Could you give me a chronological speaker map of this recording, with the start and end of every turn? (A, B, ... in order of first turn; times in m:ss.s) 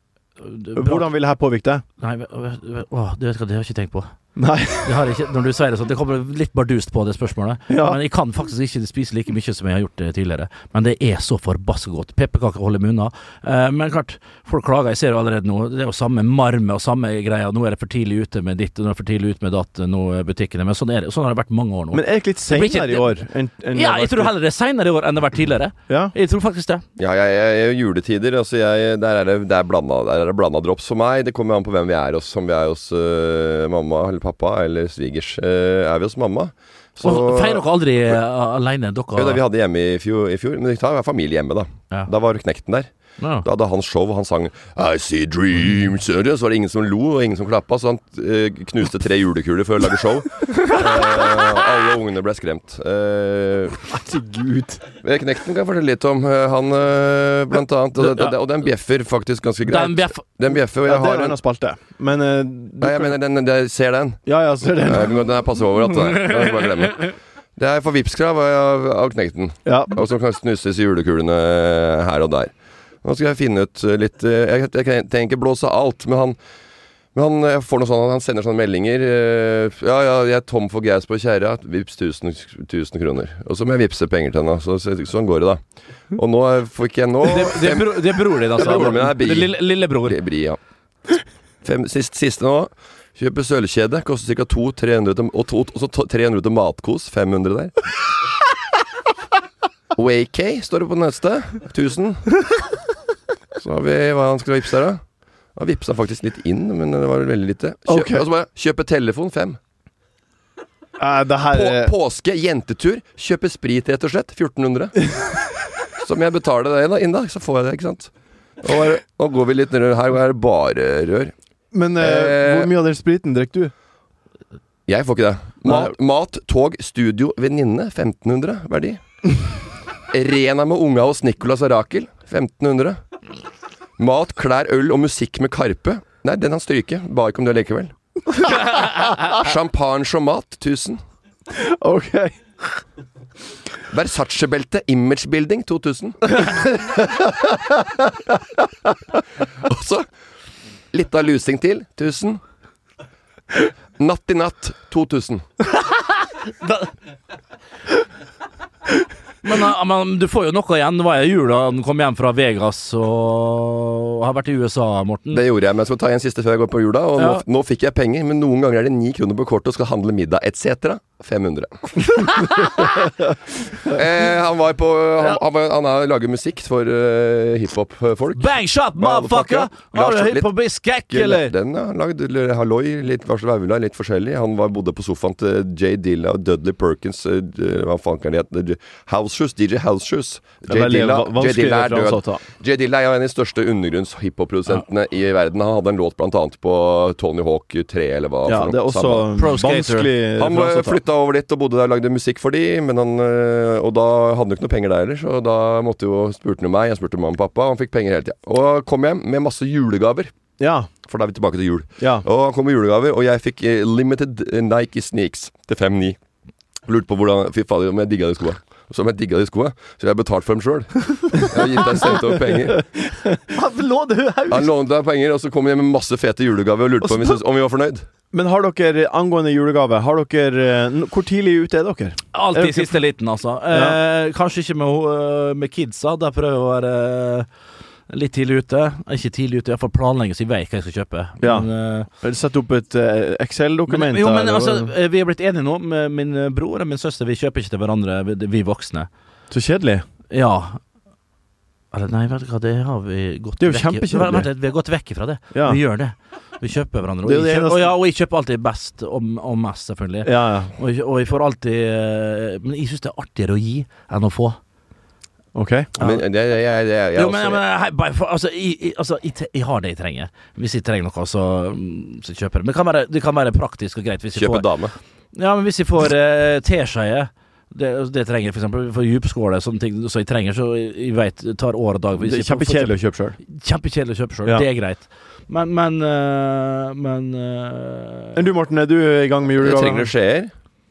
0:00.4-0:01.1 A
0:00.7-0:01.8 B
0:02.0-0:04.1 A
0:04.4-0:05.0 B
0:04.8-0:23.2 A
0:07.7-0:08.0 B
0:21.9-0:24.3 B
0:23.7-0:26.8 A
0:25.9-0:26.1 B
0:27.0-0:38.2 C
0:37.0-0:39.4 A
0:39.1-0:42.9 C
0:43.2-0:43.4 A
0:43.4-0:53.8 C
0:53.9-0:54.9 B
0:55.0-1:01.4 C
0:58.0-0:58.3 A
0:59.6-1:00.2 A
1:00.8-1:03.1 B
1:02.8-1:12.5 C
1:04.2-1:05.2 B
1:06.2-1:07.1 A
1:09.6-1:09.9 B
1:13.0-1:16.4 C
1:17.1-1:25.6 C
1:26.1-1:30.6 C
1:27.2-1:30.2 A
1:31.6-1:37.9 C
1:39.9-1:42.4 C
1:43.6-1:45.0 C
1:45.6-1:49.6 C
1:47.9-1:48.2 B
1:51.0-1:51.9 B
1:51.4-1:55.4 C
1:56.0-2:01.3 C
2:01.7-2:03.7 B
2:02.0-2:02.7 C
2:04.9-2:09.4 C
2:05.6-2:05.9 B
2:10.1-2:13.0 C
2:14.0-2:21.0 C
2:21.5-2:22.7 B
2:23.9-2:26.4 C
2:26.8-2:27.9 B
2:29.6-2:30.1 C
2:30.9-2:32.4 C
2:34.0-2:35.5 C
2:39.4-2:45.4 A
2:45.3-2:53.1 C
2:47.2-2:47.4 A
2:52.2-2:52.7 A
2:53.8-3:19.3 C
2:58.4-3:01.5 A
3:10.7-3:12.4 B
3:18.4-3:21.0 B
3:19.4-3:20.1 A
3:20.4-3:30.3 C
3:30.6-3:30.9 B
3:31.1-3:36.2 C
3:32.0-3:32.2 B
3:36.8-3:42.8 C
3:41.6-3:44.7 B
3:44.5-3:48.0 C
3:47.0-3:47.4 B
3:48.3-3:53.0 B
3:52.3-3:57.5 A
3:53.7-3:54.0 B
3:58.1-4:02.1 A
4:01.4-4:04.9 B
4:03.9-4:09.1 A
4:09.5-4:10.0 B
4:10.3-4:10.8 A
4:11.9-4:24.6 A
4:13.6-4:14.5 B
4:15.5-4:15.8 B
4:17.2-4:17.9 B
4:20.2-4:20.7 B
4:25.5-4:25.9 B
4:26.0-4:27.6 C
4:27.1-4:34.7 A
4:34.4-4:35.0 C
4:35.3-4:48.4 A
4:42.2-4:43.4 B
4:48.3-4:50.1 B
4:49.6-4:50.5 C